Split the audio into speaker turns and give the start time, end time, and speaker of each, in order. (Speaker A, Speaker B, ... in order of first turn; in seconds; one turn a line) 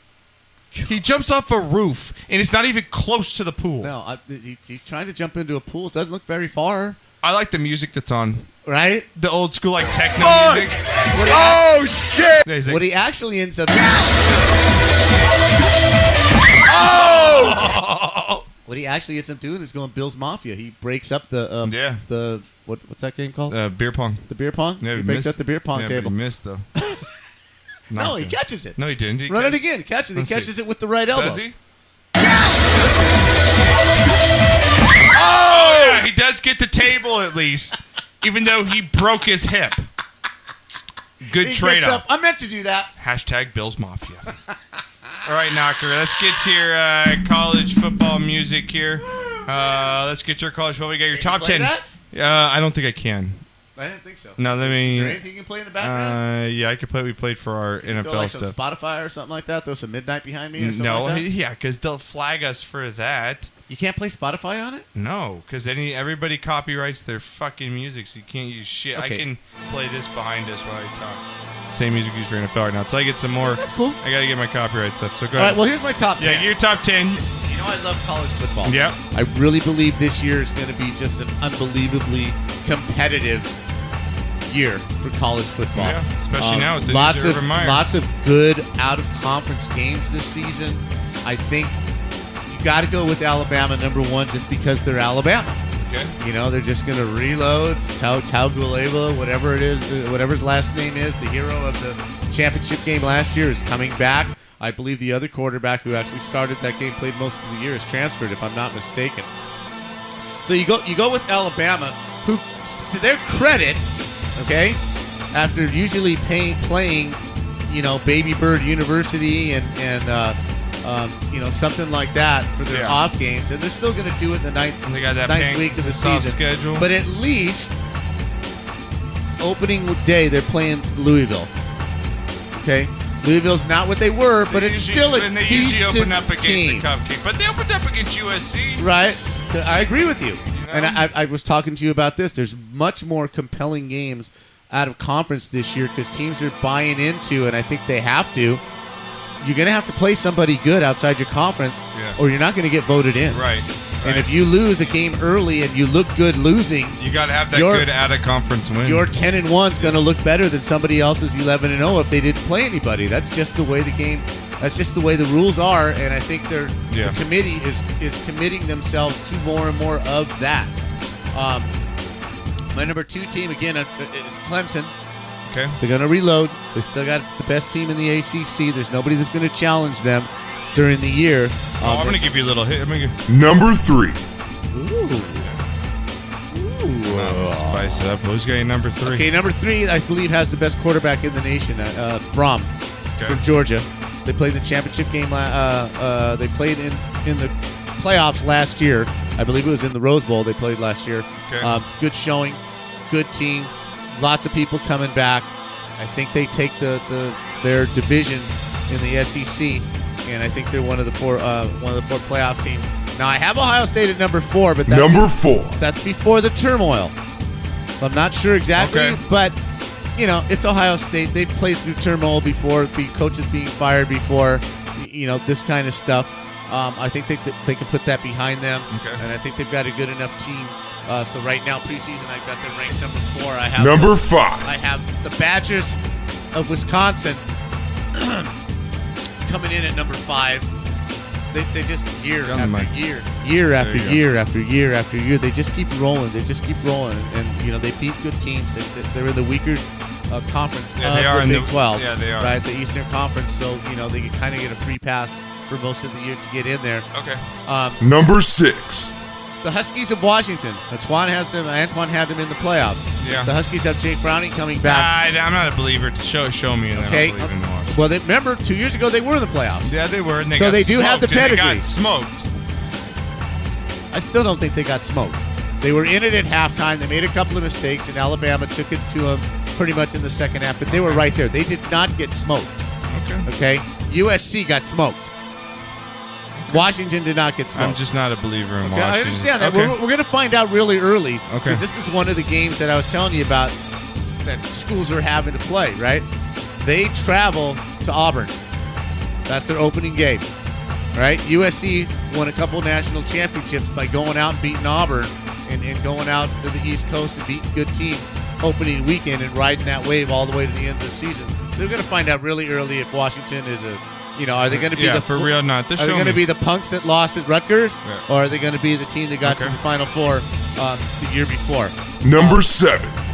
Speaker A: 0.8-3.9
Speaker B: 3.8-7.0
Speaker A: 7.2-8.5
Speaker B: 8.7-9.1
Speaker A: 9.1-10.8
Speaker B: 11.1-11.7
Speaker A: 12.4-12.8
Speaker B: 12.7-14.2
Speaker A: 16.7-18.4
Speaker B: 18.6-23.6
Speaker A: 21.6-22.0
Speaker A: 23.5-24.2
Speaker B: 24.3-26.1
Speaker A: 24.8-26.7
Speaker B: 26.8-27.1
Speaker A: 27.9-29.6
Speaker B: 27.9-31.4
Speaker A: 30.1-30.5
Speaker A: 31.1-31.6
Speaker B: 32.7-33.2
Speaker A: 35.1-39.9
Speaker A: 41.2-42.0
Speaker B: 41.4-42.9
Speaker A: 43.0-44.3
Speaker A: 45.2-53.4
Speaker B: 49.2-49.4
Speaker B: 51.1-51.9
Speaker B: 53.8-56.2
Speaker A: 54.4-55.2
Speaker A: 55.8-58.5
Speaker B: 57.8-61.2
Speaker A: 60.6-63.5
Speaker B: 63.7-64.8
Speaker A: 64.9-75.6
Speaker B: 68.9-69.2
Speaker B: 73.4-74.0
Speaker B: 75.3-76.5
Speaker A: 76.2-77.2
Speaker B: 77.5-83.5
Speaker A: 78.6-79.0
Speaker B: 84.4-91.8
Speaker A: 85.7-87.8
Speaker B: 92.5-95.6
Speaker A: 95.8-96.1
Speaker B: 96.2-109.3
Speaker B: 110.4-114.8
Speaker B: 115.3-127.8
Speaker A: 122.7-123.0
Speaker A: 124.8-126.9
Speaker B: 129.4-131.5
Speaker B: 132.5-136.8
Speaker A: 134.5-138.9
Speaker B: 138.8-148.6
Speaker A: 140.5-141.1
Speaker B: 149.4-153.4
Speaker A: 151.9-152.2
Speaker A: 153.3-154.3
Speaker B: 154.0-157.0
Speaker A: 157.0-159.1
Speaker B: 157.5-157.9
Speaker B: 158.8-170.8
Speaker A: 159.8-160.0
Speaker A: 166.9-167.2
Speaker B: 171.3-171.7
Speaker B: 172.7-174.9
Speaker A: 175.4-175.8
Speaker B: 175.8-182.2
Speaker A: 181.8-183.2
Speaker C: 183.3-184.2
Speaker B: 184.7-185.5
Speaker A: 185.1-185.7
Speaker B: 186.5-188.1
Speaker A: 187.0-189.3
Speaker B: 189.0-192.7
Speaker A: 193.2-193.4
Speaker B: 193.2-217.1
Speaker A: 201.4-201.7
Speaker C: 214.8-215.8
Speaker B: 218.0-219.6
Speaker A: 218.8-219.2
Speaker B: 220.2-236.0
Speaker A: 228.9-229.2
Speaker C: 233.8-234.7
Speaker B: 236.5-237.4
Speaker B: 238.1-238.5
Speaker B: 239.4-240.7
Speaker B: 241.5-257.1
Speaker A: 242.4-242.9
Speaker A: 243.8-244.2
Speaker A: 251.0-252.6
Speaker A: 257.1-257.5
Speaker B: 257.6-258.0
Speaker C: 258.0-259.1
Speaker B: 259.6-265.1
Speaker A: 263.2-263.5
Speaker A: 264.8-268.0
Speaker B: 266.9-269.9
Speaker A: 269.8-272.5
Speaker B: 270.5-271.9
Speaker B: 274.1-282.8
Speaker A: 280.9-281.2
Speaker A: 283.1-283.5
Speaker B: 283.4-285.3
Speaker A: 286.5-286.9
Speaker B: 286.7-288.0
Speaker A: 287.7-290.0
Speaker B: 288.8-293.8
Speaker A: 291.5-291.8
Speaker B: 294.4-296.2
Speaker B: 296.8-298.6
Speaker B: 299.5-300.4
Speaker B: 301.1-322.6
Speaker A: 314.7-316.4
Speaker A: 319.4-319.8
Speaker C: 322.2-323.1